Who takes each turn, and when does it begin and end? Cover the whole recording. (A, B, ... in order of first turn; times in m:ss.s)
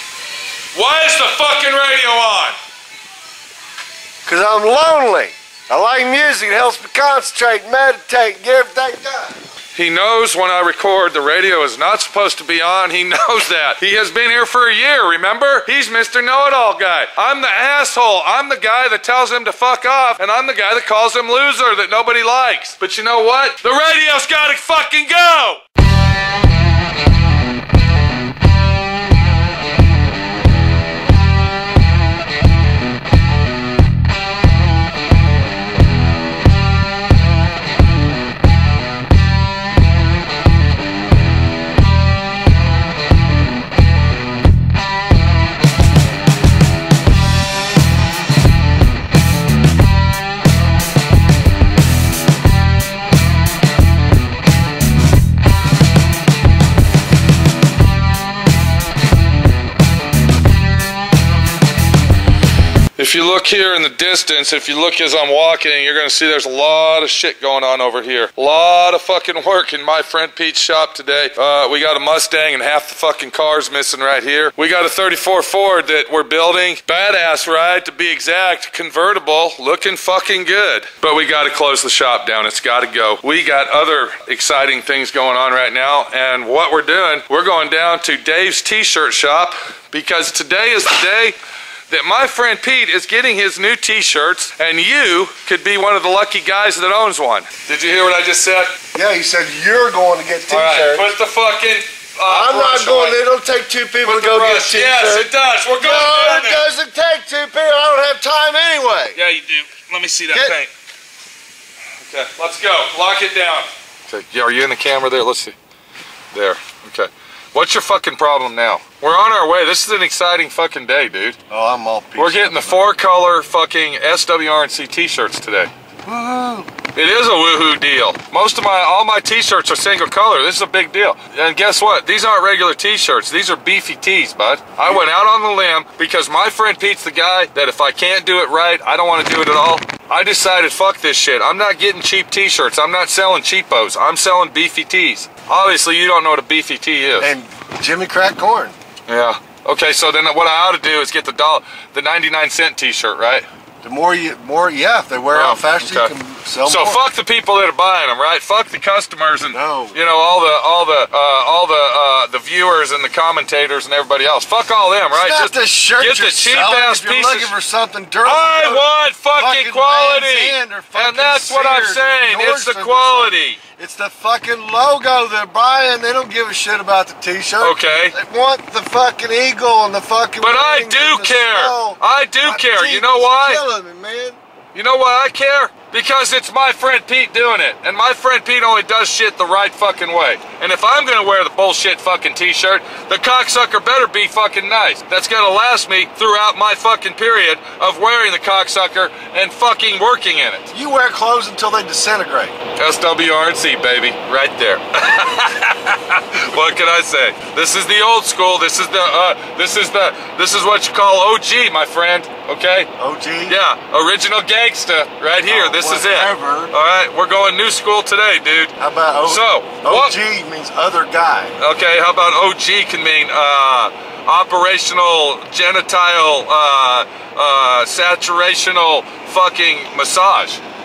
0:00.7-0:02.6 A
0:04.2-0:09.4 B
0:09.7-0:25.6 A
1:03.0-1:31.4 A
1:31.9-1:38.7 A
1:38.9-1:41.1 B
1:40.5-1:43.2 A
1:42.3-1:49.2 B
1:44.0-1:46.7 A
1:49.1-1:50.7 A
1:52.1-1:55.5 A
1:56.3-2:01.4 A
2:01.5-2:02.8 B
2:02.2-2:05.7 A
2:06.0-2:06.7 B
2:06.9-2:27.3 A
2:27.2-2:28.7 B
2:29.1-2:33.4 A
2:33.8-2:37.0 B
2:35.3-2:36.1 A
2:36.6-2:47.5 A
2:39.5-2:40.0 B
2:45.1-3:04.4 B
2:48.2-2:53.6 A
2:57.6-2:58.1 A
3:00.4-3:03.6 A
3:04.7-3:20.7 A
3:20.7-3:22.5 B
3:22.8-3:32.9 A
3:33.0-3:33.6 B
3:33.5-3:38.7 A
3:35.4-3:36.7 B
3:38.8-3:41.5 B
3:39.2-3:40.1 A
3:41.6-3:50.6 A